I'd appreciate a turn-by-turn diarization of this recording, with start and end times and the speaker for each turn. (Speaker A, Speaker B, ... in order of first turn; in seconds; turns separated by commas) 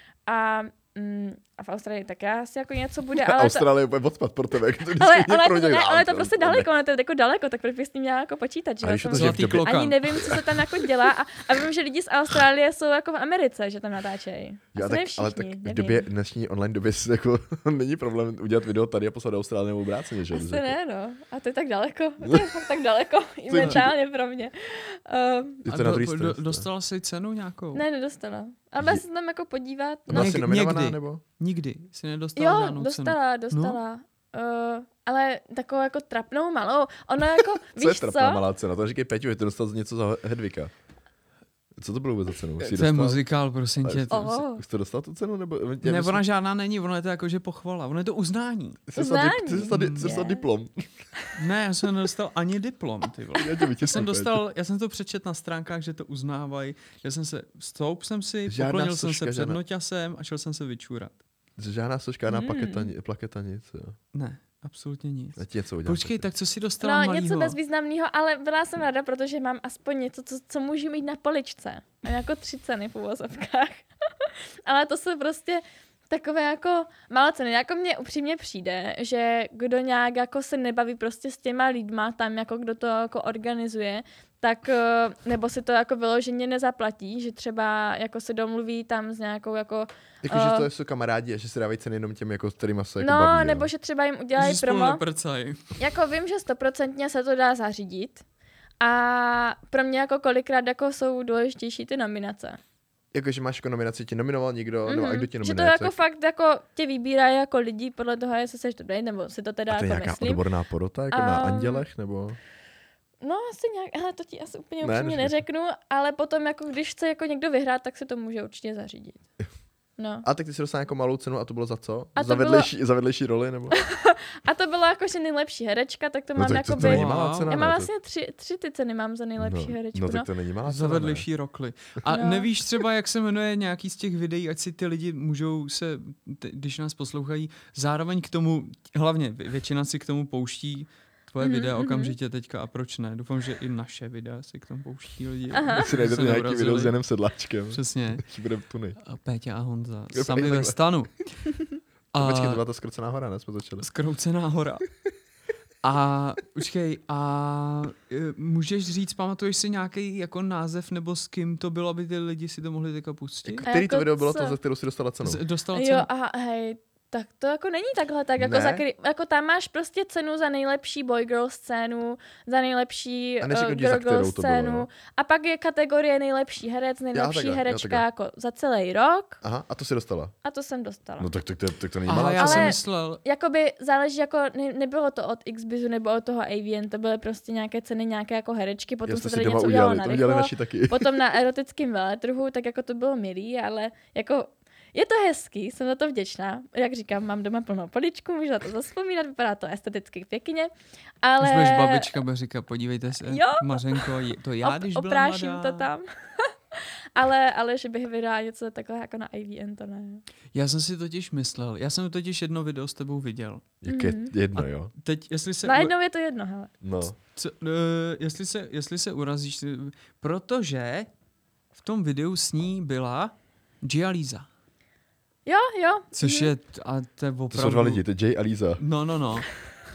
Speaker A: 0.3-3.7, Speaker B: 3.2-6.7, Speaker A: 5.0-16.1, Speaker B: 8.8-10.9, Speaker C: 9.1-10.0, Speaker B: 14.7-20.7, Speaker A: 20.3-25.7, Speaker B: 22.2-22.5, Speaker B: 23.5-23.9, Speaker B: 25.6-26.7, Speaker C: 25.7-27.8, Speaker A: 27.7-30.4, Speaker B: 30.1-31.2, Speaker C: 30.1-33.8, Speaker A: 32.4-38.5, Speaker B: 37.8-40.7, Speaker B: 41.8-43.2, Speaker C: 42.6-44.4, Speaker B: 43.8-46.2, Speaker A: 44.1-44.6, Speaker C: 45.8-48.8, Speaker B: 48.9-50.8, Speaker A: 49.0-50.5, Speaker C: 49.7-50.2, Speaker C: 51.4-61.2, Speaker B: 53.4-54.4, Speaker B: 58.5-59.6, Speaker B: 61.6-64.0, Speaker A: 62.3-62.9, Speaker C: 64.1-67.6, Speaker B: 65.4-66.3, Speaker A: 66.8-90.7, Speaker B: 90.2-93.7, Speaker A: 93.0-95.0, Speaker C: 94.4-95.7, Speaker A: 95.8-98.2, Speaker A: 98.8-102.6, Speaker B: 103.1-106.0, Speaker A: 104.9-110.4, Speaker B: 109.7-112.4, Speaker A: 111.1-111.8, Speaker A: 113.2-119.2, Speaker B: 114.8-115.4, Speaker A: 120.0-120.3, Speaker B: 120.2-123.8, Speaker A: 122.2-122.7, Speaker A: 123.8-130.3, Speaker B: 126.4-127.9, Speaker C: 126.8-127.5, Speaker B: 129.4-131.3, Speaker C: 130.7-147.0, Speaker A: 132.1-132.5, Speaker A: 141.4-142.2, Speaker A: 145.5-145.9, Speaker B: 145.7-149.0, Speaker C: 147.7-148.2, Speaker C: 149.0-151.3, Speaker B: 150.1-150.8, Speaker C: 152.1-152.6, Speaker B: 152.2-153.9, Speaker C: 153.8-154.9, Speaker C: 155.8-163.7, Speaker B: 163.5-165.4, Speaker A: 163.7-164.6, Speaker C: 165.2-166.1, Speaker A: 165.7-179.4, Speaker B: 168.4-168.8, Speaker B: 173.4-174.9, Speaker B: 177.1-178.0, Speaker B: 179.4-180.3, Speaker A: 180.4-181.3, Speaker B: 181.2-182.8, Speaker C: 182.1-183.2, Speaker A: 182.4-200.7, Speaker B: 189.1-191.2, Speaker A: 201.2-202.2, Speaker C: 201.4-205.9, Speaker A: 203.3-204.1, Speaker A: 204.6-210.2, Speaker C: 210.5-213.7, Speaker B: 213.8-214.9, Speaker A: 213.9-214.3, Speaker C: 214.6-215.9, Speaker A: 215.6-216.7, Speaker B: 216.8-217.2, Speaker C: 217.3-221.1, Speaker C: 221.8-224.5, Speaker A: 225.5-226.5, Speaker C: 226.2-228.0, Speaker B: 227.5-228.8, Speaker C: 228.8-229.5